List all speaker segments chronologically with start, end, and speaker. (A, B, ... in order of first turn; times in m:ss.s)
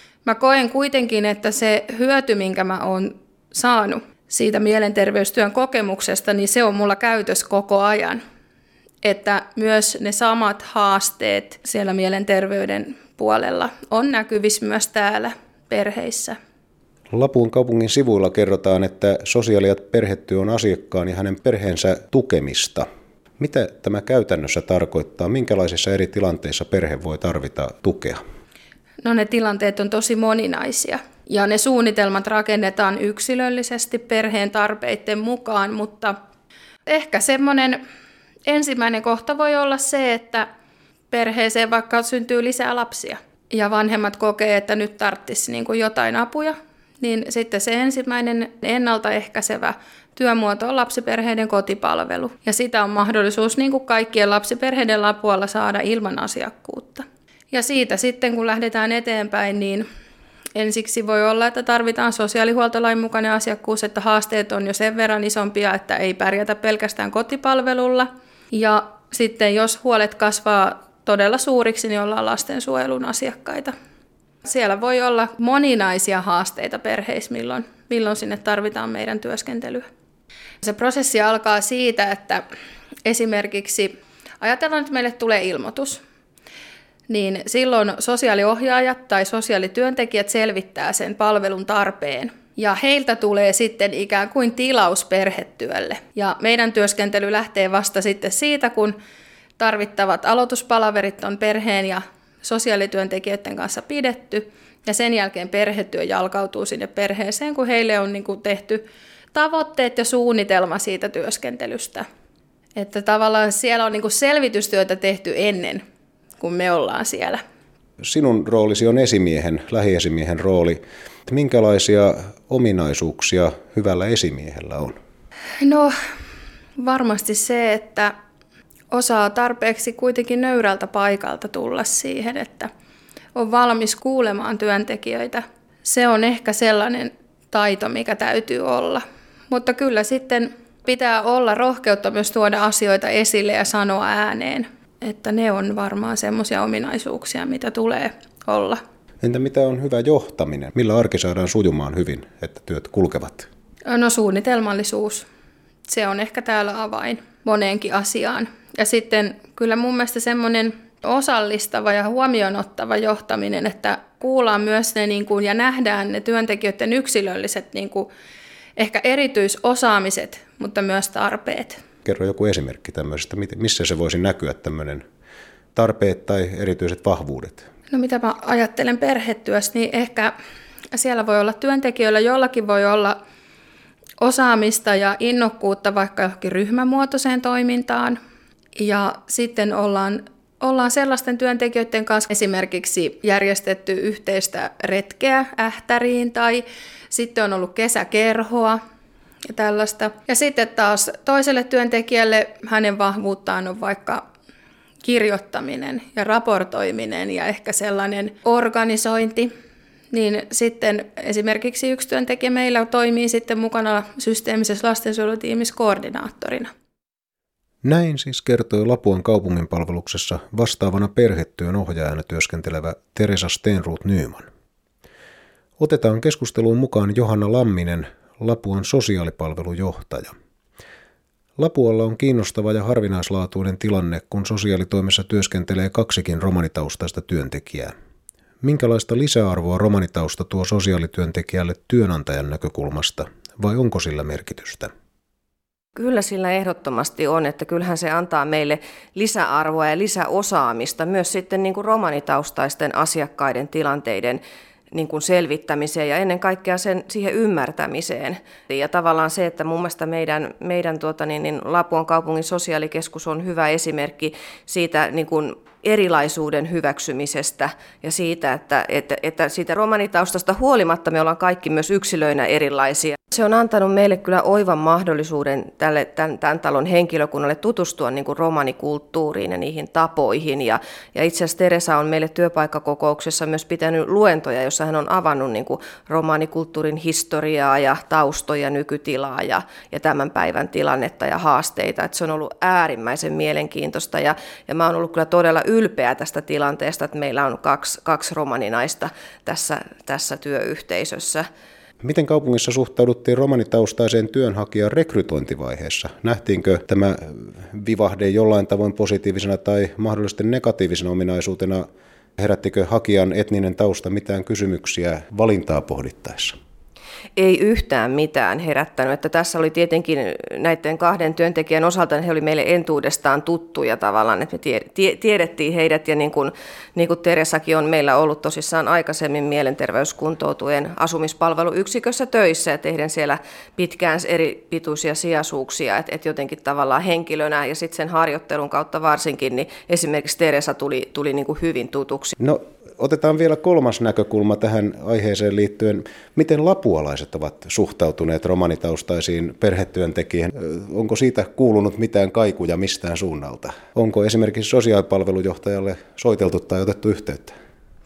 0:00.2-0:08.2 A
0:09.0-0:16.4 A
0:17.1-0:22.9 B
0:23.4-0:28.2 B
0:29.0-0:36.1 A
0:36.8-0:37.8 A
0:38.5-0:40.4 A
0:41.1-0:59.8 A
1:00.6-1:13.7 A
1:14.4-1:19.8 A
1:20.6-1:22.4 A
1:23.0-1:26.0 A
1:27.1-1:39.0 A
1:39.6-1:48.8 A
1:49.3-1:52.0 A
1:52.8-1:55.8 A
1:56.4-1:57.4 A
1:58.0-2:05.0 B
2:05.6-2:05.9 A
2:06.8-2:08.1 A
2:08.9-2:12.7 A
2:13.3-2:28.8 A
2:29.2-2:33.5 B
2:33.9-2:35.2 A
2:35.9-2:48.1 A
2:48.8-2:51.8 A
2:52.0-2:55.0 B
2:55.7-2:57.6 B
2:57.9-3:00.3 A
3:00.9-3:03.2 A
3:04.2-3:08.2 A
3:08.8-3:18.8 A
3:19.4-3:24.2 A
3:25.0-3:29.5 A
3:30.1-3:36.7 A
3:37.8-3:44.5 B
3:45.8-3:50.3 B
3:51.6-3:57.9 B
3:58.6-4:04.9 B
4:06.0-4:14.4 C
4:14.9-5:01.4 C
5:02.0-5:16.5 B
5:17.4-5:42.3 C
5:42.4-5:57.6 B